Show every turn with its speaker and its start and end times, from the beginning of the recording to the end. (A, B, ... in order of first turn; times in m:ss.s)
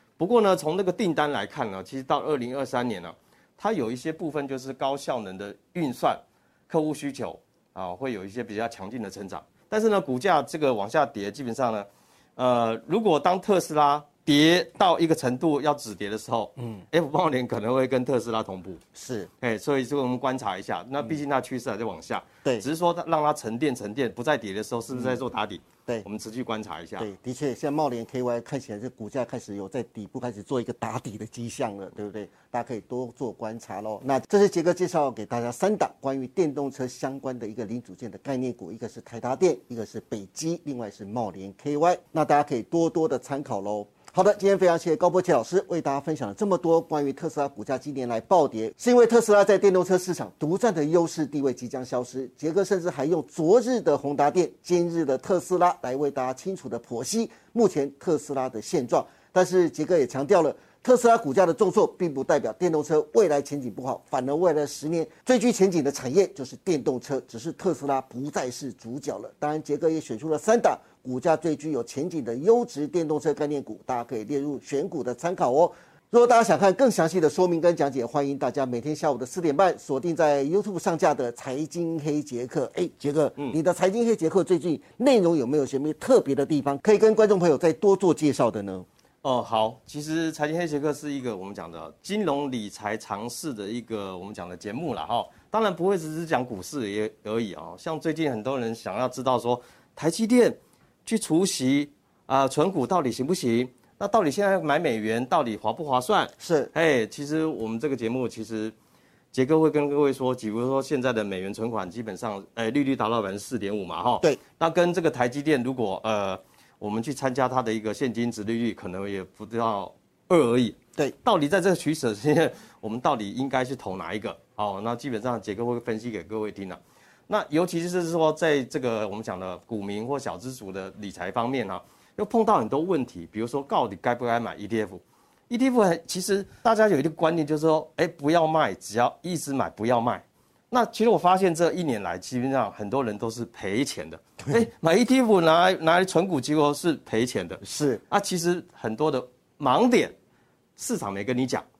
0:00.2-0:18.8 A
0:19.0-0:19.3 B
0:19.4-0:27.1 A
0:24.9-0:25.2 B
0:27.0-1:28.9 B
1:29.2-1:48.7 A
1:46.4-1:46.7 B
1:49.3-2:30.2 A
2:27.6-2:28.0 B
2:30.8-2:31.6 A